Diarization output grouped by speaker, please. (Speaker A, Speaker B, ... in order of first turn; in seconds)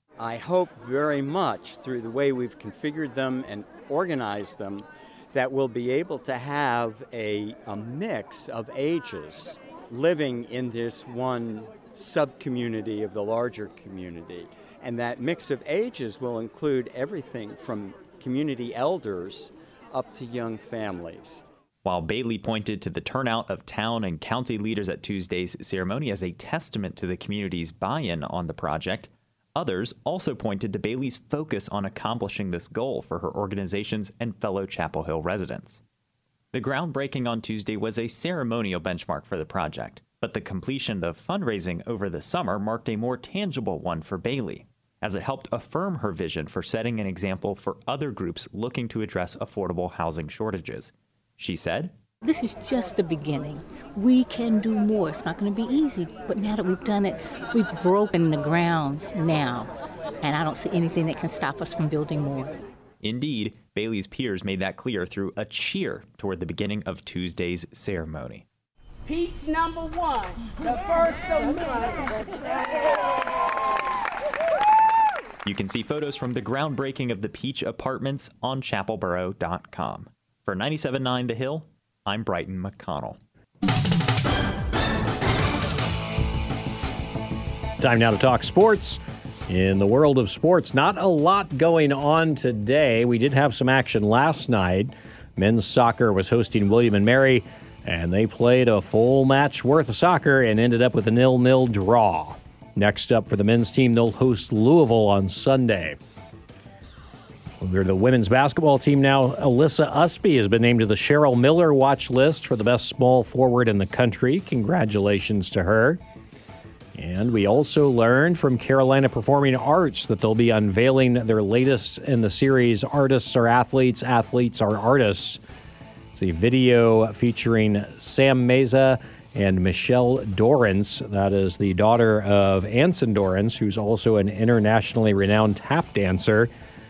Speaker A: 0.2-21.4
Speaker B: 21.8-35.8, 36.5-51.9, 63.0-68.5, 75.5-83.2
Speaker C: 52.2-59.7, 60.2-62.5
Speaker D: 69.1-72.1
Speaker E: 87.8-106.0, 107.6-116.0, 117.0-125.4, 126.1-136.5